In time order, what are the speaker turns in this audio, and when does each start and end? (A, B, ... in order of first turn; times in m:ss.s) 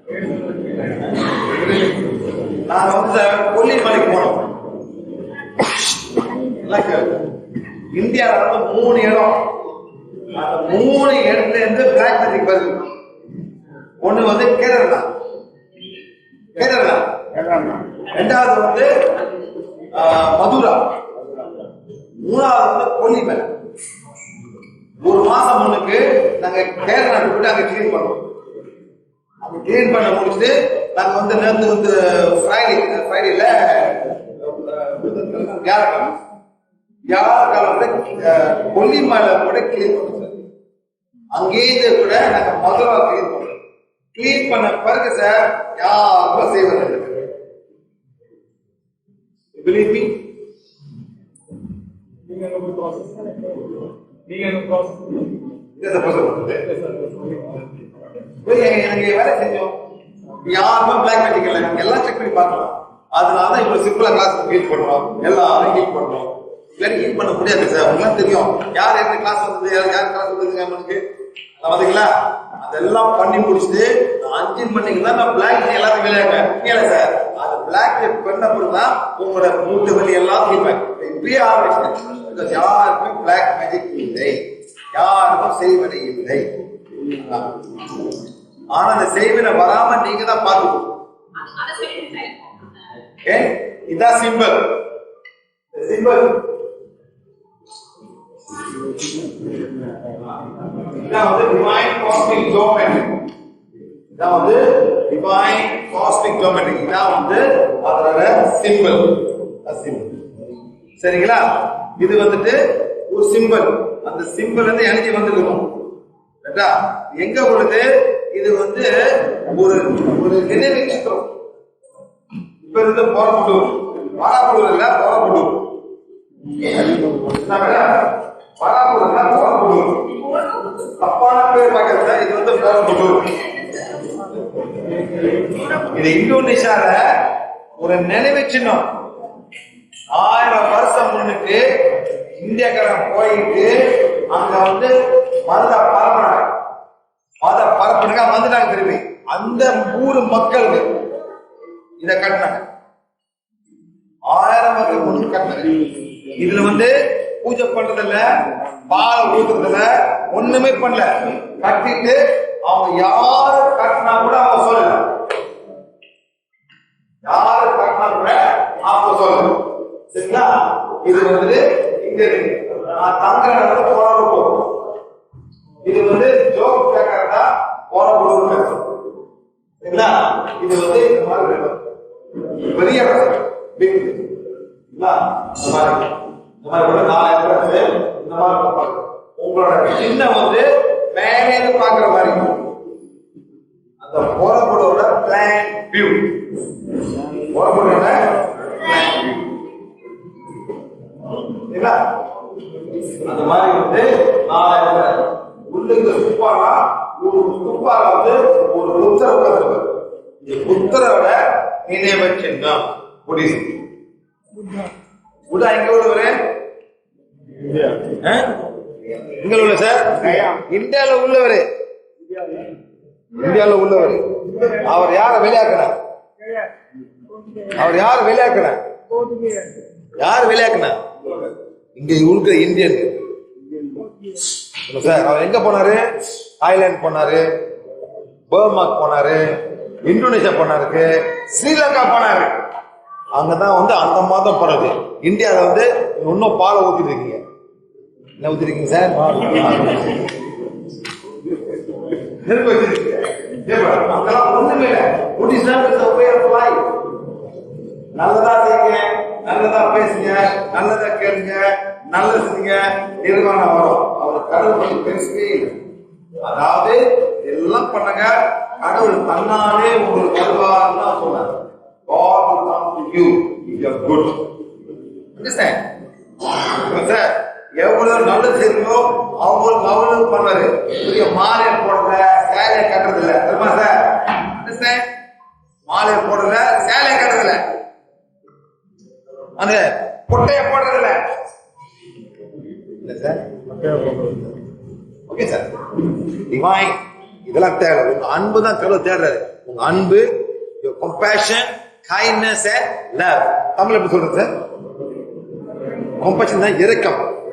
0:00.2-0:01.0 A
0:01.0-0:01.8 B
0:02.5-0:04.6 B
0:06.4-0:07.3 B
0:07.9-0:09.6 B
0:10.3-0:12.9 B
0:14.0-0:15.1 B
0:16.6-0:17.2 B
0:17.4-0:18.0 A
0:18.1-0:19.3 B
0:19.9-0:20.9 B
0:22.2-0:23.5 B
0:25.0-0:28.3 B
0:29.4-0:36.2 B
0:37.1-0:40.4 B
0:41.3-0:43.6 B
0:44.1-0:47.3 B
0:49.6-0:50.2 B
0:52.3-0:53.7 A
0:54.3-0:55.3 A
0:55.8-0:56.6 B
0:56.7-0:57.7 A
0:58.4-0:59.8 B
1:00.4-1:11.0 B
1:11.6-1:27.6 B
1:28.7-1:32.4 B
1:33.2-1:34.8 B
1:35.7-1:36.5 B
1:40.2-1:43.3 B
1:44.2-1:50.2 B
1:51.0-1:55.8 B
1:56.4-2:01.3 B
2:02.6-2:05.7 B
2:06.6-2:13.7 B
2:14.8-2:15.3 A
2:15.7-2:18.9 B
2:20.1-2:26.6 B
2:27.4-2:31.0 B
2:32.0-2:32.6 B
2:34.3-2:35.8 B
2:36.4-2:38.2 B
2:38.8-2:45.3 B
2:47.2-2:54.9 B
2:55.8-2:59.0 B
2:59.8-3:01.8 B
3:02.6-3:04.4 B
3:04.9-3:12.7 B
3:14.0-3:16.5 B
3:17.4-3:19.4 B
3:21.4-3:22.1 B
3:23.2-3:33.8 B
3:35.5-3:36.4 B
3:37.6-3:38.2 A
3:38.2-3:38.6 B
3:39.2-3:41.7 B
3:40.2-3:40.6 A
3:42.3-3:42.8 A
3:43.3-3:45.9 B
3:44.5-3:44.8 A
3:47.4-3:47.7 A
3:47.7-3:48.8 B
3:49.2-3:49.8 A
3:50.2-3:51.4 B
3:52.0-3:53.2 B
3:53.8-3:54.4 A
3:54.8-3:56.0 B
3:56.6-3:57.5 B
3:58.5-3:59.4 B
4:00.0-4:02.6 B
4:03.4-4:07.4 B
4:08.4-4:10.3 B
4:11.7-4:17.1 B
4:18.1-4:25.8 B
4:26.4-4:34.5 B
4:35.4-4:35.9 B
4:36.5-4:45.1 B
4:45.9-4:47.6 B
4:49.6-4:51.2 B
4:53.0-4:53.5 B
4:53.8-4:54.5 A
4:55.3-5:00.3 B
5:00.8-5:04.5 B
5:06.2-5:07.3 B